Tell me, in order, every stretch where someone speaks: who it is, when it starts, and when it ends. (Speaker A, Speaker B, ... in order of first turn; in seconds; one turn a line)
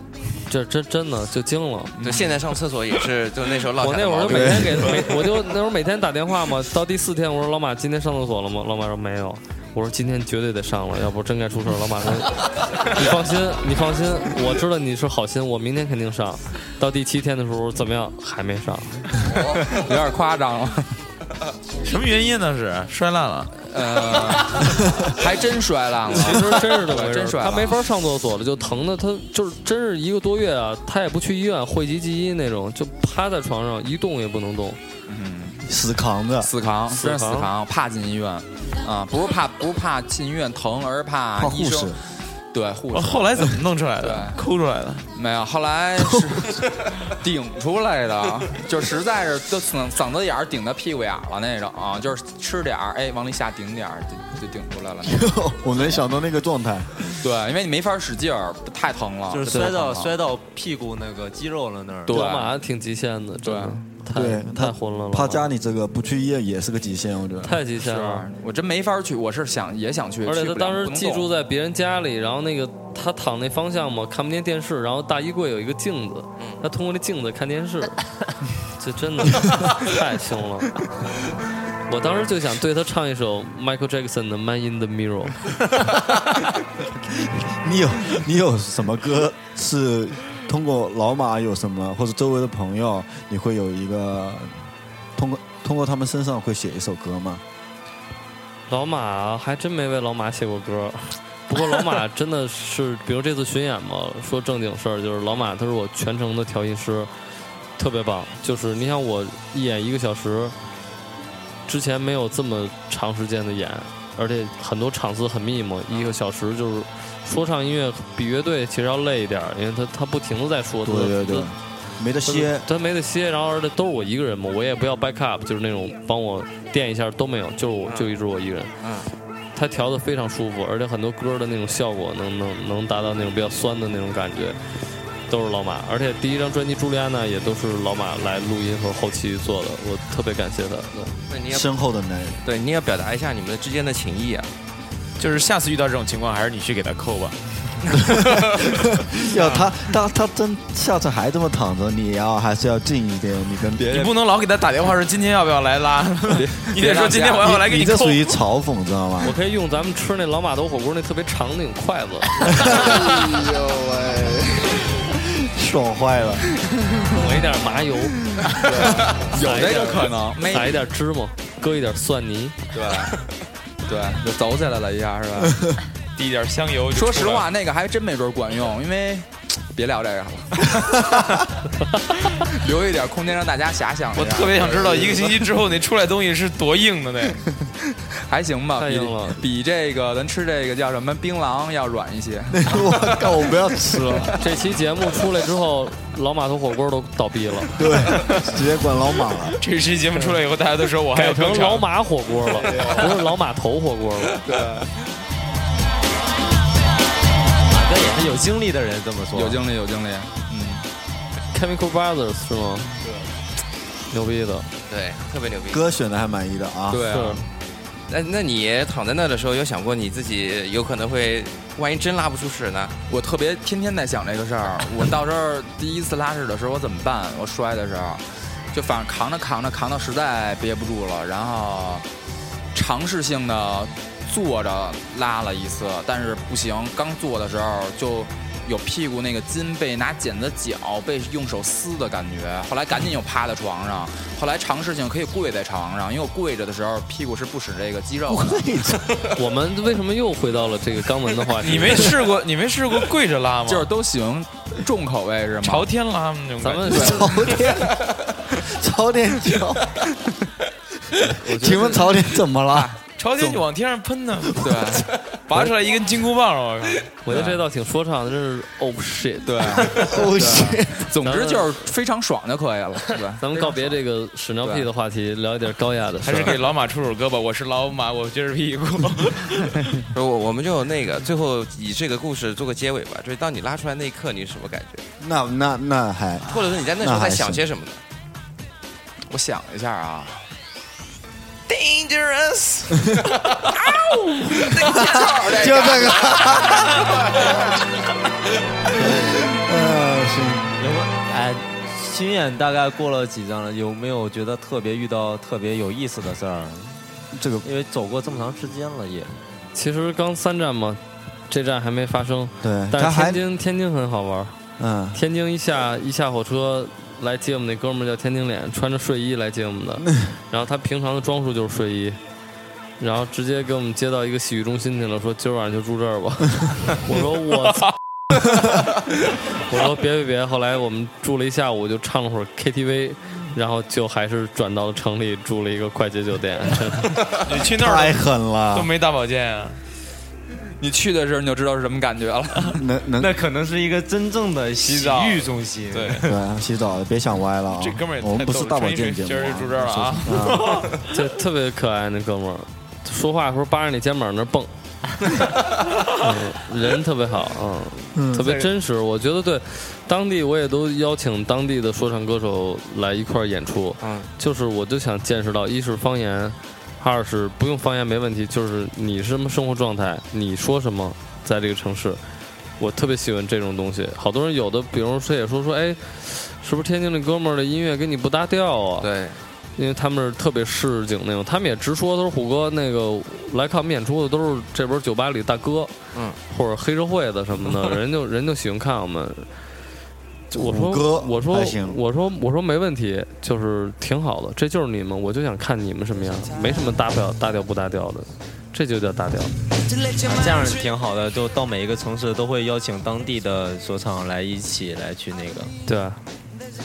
Speaker A: 0.5-1.9
Speaker B: 2.0-2.4
Speaker C: 2.0-5.2
Speaker A: 3.8-19.2
Speaker D: 4.2-4.9
Speaker B: 19.6-20.9
Speaker E: 21.8-23.5
Speaker B: 23.7-27.8
Speaker A: 26.1-34.8
Speaker B: 35.1-35.6
Speaker D: 35.6-36.5
Speaker B: 36.4-42.0
Speaker A: 36.9-37.5
Speaker D: 41.4-42.0
Speaker B: 42.5-44.4
Speaker E: 42.9-45.1
Speaker B: 45.1-55.3
Speaker D: 46.2-46.6
Speaker D: 55.0-57.0
Speaker B: 57.2-60.1
Speaker F: 59.3-62.2
Speaker B: 62.0-62.5
Speaker A: 62.1-65.5
Speaker B: 63.4-63.8
Speaker D: 64.1-67.6
Speaker A: 67.4-68.3
Speaker B: 67.7-71.3
Speaker A: 70.2-78.0
Speaker C: 76.4-76.6
Speaker A: 78.8-80.8
Speaker A: 81.9-85.4
Speaker D: 87.2-94.6
Speaker D: 95.2-97.4
Speaker A: 98.7-107.1
Speaker A: 107.8-110.5
Speaker A: 111.7-121.5
Speaker D: 120.8-122.7
Speaker A: 122.2-128.7
Speaker C: 127.8-128.1
Speaker C: 128.8-129.1
Speaker A: 129.5-134.6
Speaker A: 135.3-141.1
Speaker C: 141.3-141.7
Speaker D: 141.5-142.4
Speaker C: 142.4-144.5
Speaker E: 145.2-147.4
Speaker E: 147.9-148.2
Speaker D: 148.1-154.0
Speaker B: 149.3-149.7
Speaker B: 153.8-154.1
Speaker E: 153.9-158.4
Speaker B: 156.3-157.6
Speaker D: 157.4-159.3
Speaker A: 159.2-162.8
Speaker D: 162.4-163.2
Speaker D: 164.9-166.4
Speaker A: 167.1-168.2
Speaker B: 168.5-170.8
Speaker A: 169.4-172.6
Speaker B: 172.7-173.1
Speaker B: 173.9-175.6
Speaker D: 175.4-175.7
Speaker E: 176.2-177.5
Speaker B: 176.9-181.4
Speaker B: 182.5-185.5
Speaker E: 184.1-187.4
Speaker B: 188.3-194.4
Speaker A: 188.8-189.4
Speaker D: 192.5-194.3
Speaker A: 194.4-197.8
Speaker D: 197.8-199.6
Speaker E: 199.6-201.9
Speaker A: 201.1-204.4
Speaker B: 202.6-203.1
Speaker B: 204.4-204.9
Speaker F: 207.7-209.6
Speaker B: 209.3-210.8
Speaker A: 211.5-212.9
Speaker A: 214.1-214.7
Speaker C: 214.9-215.8
Speaker D: 215.7-217.2
Speaker B: 216.9-217.4
Speaker A: 217.0-217.4
Speaker C: 218.1-222.9
Speaker B: 223.1-232.1
Speaker B: 232.7-248.7
Speaker D: 248.3-249.1
Speaker A: 249.3-252.1
Speaker E: 251.6-253.9
Speaker B: 253.6-255.9
Speaker E: 255.6-257.2
Speaker A: 256.6-257.3
Speaker D: 256.9-260.0
Speaker B: 256.9-257.6
Speaker A: 261.3-262.1
Speaker D: 261.4-262.9
Speaker B: 262.7-263.6
Speaker E: 263.2-264.6
Speaker B: 264.6-265.7
Speaker D: 264.7-264.9
Speaker E: 265.5-267.1
Speaker A: 267.2-269.9
Speaker B: 267.3-267.6
Speaker B: 269.4-273.7
Speaker D: 269.9-271.1
Speaker A: 271.2-271.8
Speaker A: 273.4-276.6
Speaker B: 274.6-274.9
Speaker E: 276.2-279.8
Speaker C: 280.1-285.0
Speaker D: 285.2-287.6
Speaker C: 286.5-288.0
Speaker B: 289.3-290.4
Speaker C: 291.7-292.8
Speaker B: 293.8-296.4
Speaker D: 294.5-297.0
Speaker D: 298.9-300.7
Speaker F: 300.8-307.0
Speaker D: 307.3-307.7
Speaker F: 307.6-309.4
Speaker A: 309.7-314.6
Speaker D: 312.6-313.4
Speaker D: 314.8-315.2
Speaker A: 315.1-322.2
Speaker A: 323.0-327.9
Speaker A: 329.6-337.1
Speaker E: 337.4-339.8
Speaker D: 337.6-338.9
Speaker B: 340.8-342.7
Speaker D: 342.7-343.4
Speaker F: 343.2-346.4
Speaker E: 344.8-346.2
Speaker D: 346.2-350.9
Speaker E: 347.7-350.9
Speaker A: 351.1-354.7
Speaker A: 356.2-372.2
Speaker D: 358.1-358.5
Speaker C: 364.0-364.3
Speaker A: 372.8-379.1
Speaker C: 379.0-379.4
Speaker A: 379.8-385.9
Speaker A: 386.5-389.5
Speaker D: 390.5-392.0
Speaker A: 390.5-399.5
Speaker F: 400.2-405.7
Speaker A: 405.9-406.2